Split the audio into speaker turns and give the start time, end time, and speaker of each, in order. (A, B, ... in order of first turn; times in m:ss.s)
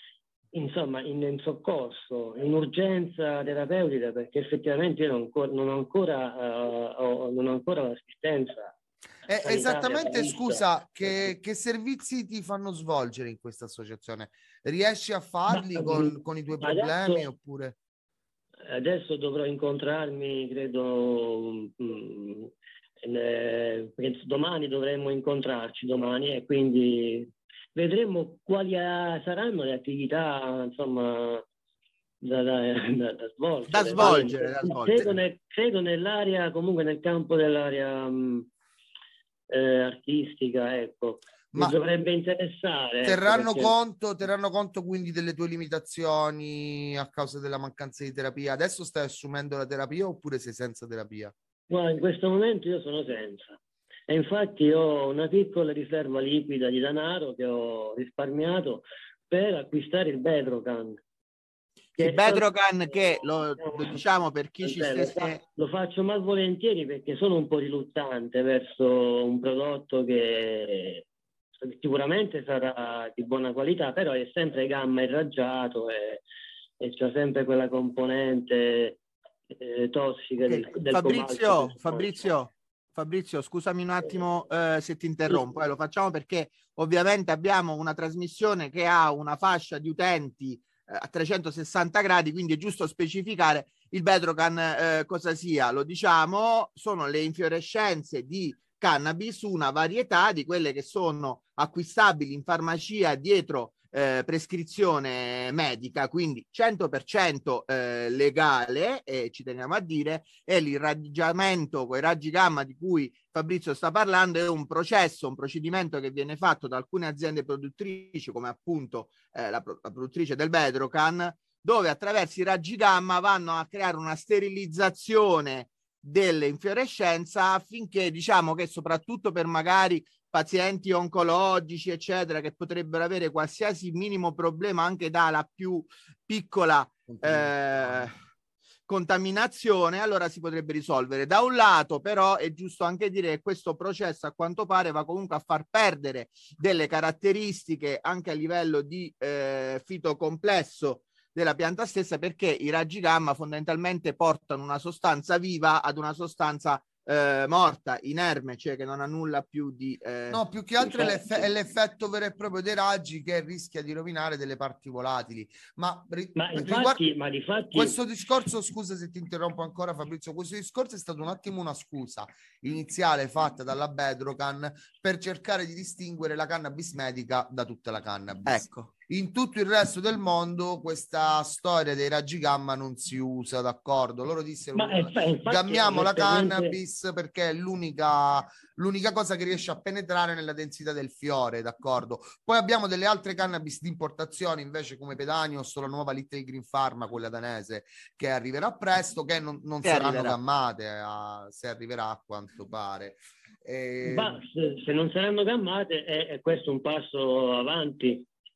0:00.5-0:08.7 A
0:09.3-0:17.8 B
0:09.4-0:10.6 A
0:15.5-0:17.3 A
0:18.6-0:31.4 A
0:32.2-0:38.5 A
0:33.7-0:35.2 C
0:39.5-0:43.7 A
0:43.0-0:51.3 B
0:51.7-1:01.0 A
1:02.0-1:04.0 A
1:02.0-1:05.4 C
1:04.6-1:11.0 A
1:11.6-1:16.2 A
1:16.8-1:19.0 A
1:19.5-1:22.3 A
1:20.5-2:18.1 C
1:25.3-1:25.5 A
2:17.1-2:18.1 B
2:18.9-2:40.4 C
2:40.3-2:47.0 B
2:40.8-2:41.4 A
2:46.4-2:48.0 A
2:47.7-3:24.4 B
2:58.4-2:58.9 C
3:04.8-3:06.8 A
3:19.8-3:20.4 C
3:24.0-3:28.3 A